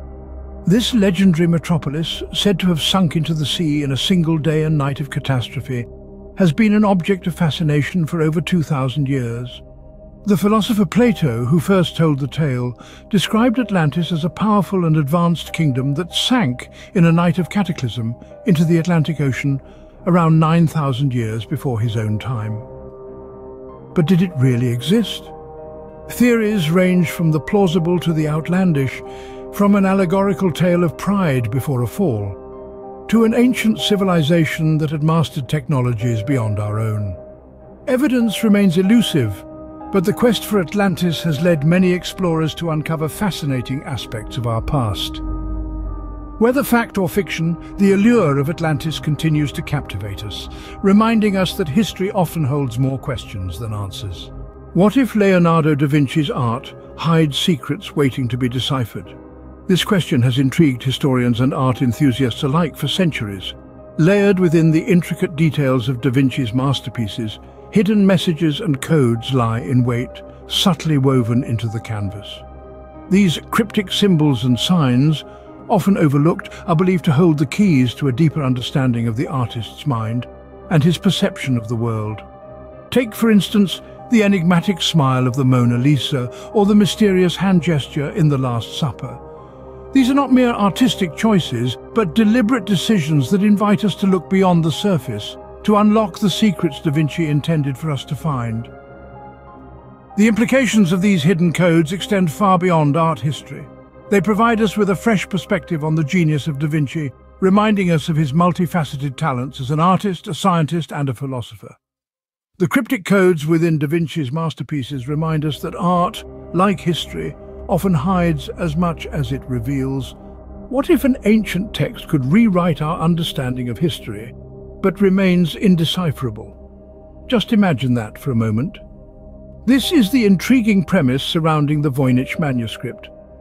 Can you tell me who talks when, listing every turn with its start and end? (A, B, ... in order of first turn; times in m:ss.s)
0:00.6-0:09.6 A
0:10.2-0:22.7 A
0:23.9-0:25.3 A
0:26.1-0:32.4 A
0:33.1-0:37.2 A
0:37.9-0:45.2 A
0:46.4-0:59.2 A
0:59.7-1:12.4 A
1:13.1-1:22.2 A
1:22.9-1:29.2 A
1:29.9-1:38.7 A
1:40.2-1:51.8 A
1:52.6-2:00.2 A
2:00.7-2:06.6 A
2:07.3-2:08.8 A
2:09.6-2:13.1 A